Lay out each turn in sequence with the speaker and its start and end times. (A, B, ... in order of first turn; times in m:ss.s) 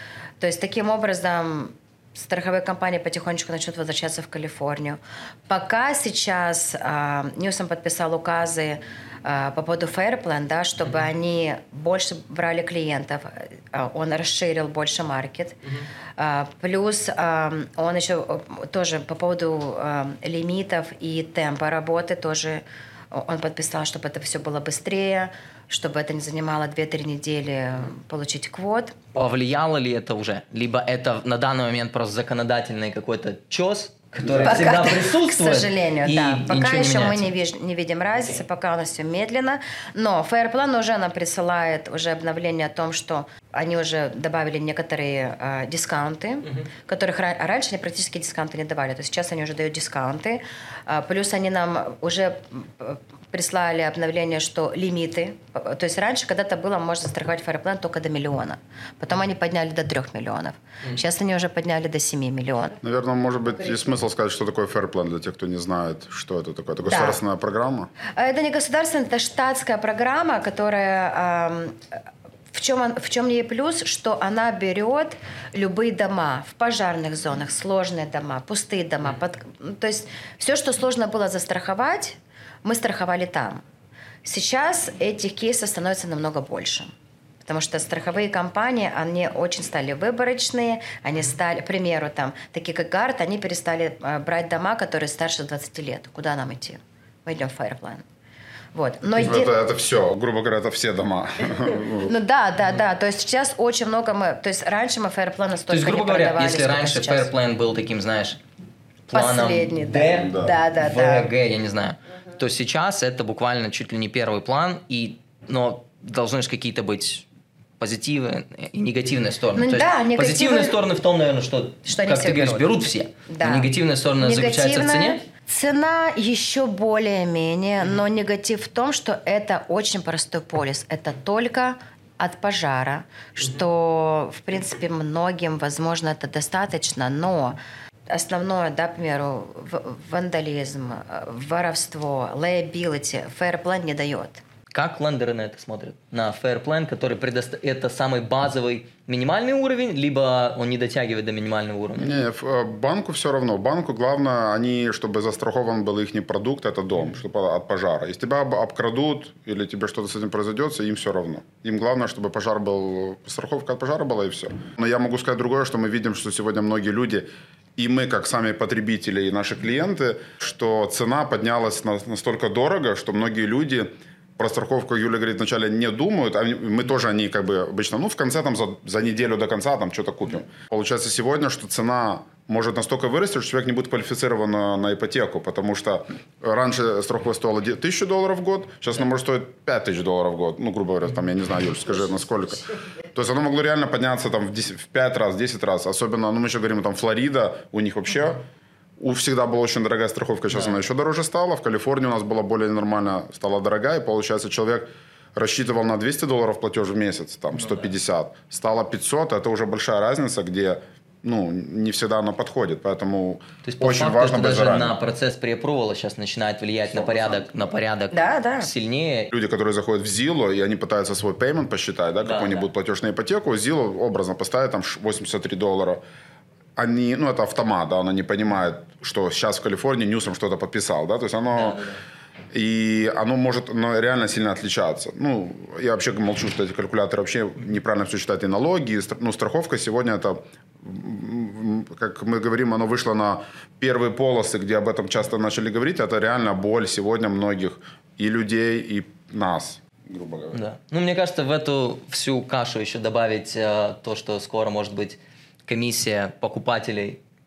0:00.4-0:15.6 A
0:16.2-0:29.0 A
0:29.1-0:37.3 B
0:34.2-0:34.6 C
0:34.3-1:02.8 A
1:02.8-1:07.9 C
1:06.9-1:07.2 A
1:08.1-1:12.0 A
1:12.5-1:23.6 A
1:24.2-1:26.9 A
1:27.4-1:38.0 A
1:38.7-1:39.5 A
1:39.2-1:42.1 C
1:42.0-1:47.3 A
1:45.7-1:48.4 B
1:49.1-1:57.3 B
1:49.1-1:51.3 A
1:50.1-1:50.5 C
1:57.8-2:05.2 B
1:59.5-2:00.8 A
2:01.9-2:24.4 A
2:24.7-2:32.1 B
2:32.0-3:18.4 C
3:19.0-3:35.0 C
3:20.5-3:20.8 B
3:27.5-3:27.9 B
3:33.6-3:39.3 B
3:37.0-3:37.4 C
3:38.1-3:38.7 A
3:39.3-3:46.0 C
3:42.2-3:42.7 B
3:46.8-3:51.8 C
3:51.6-3:52.0 B
3:52.5-4:10.6 C
4:10.5-4:17.2 B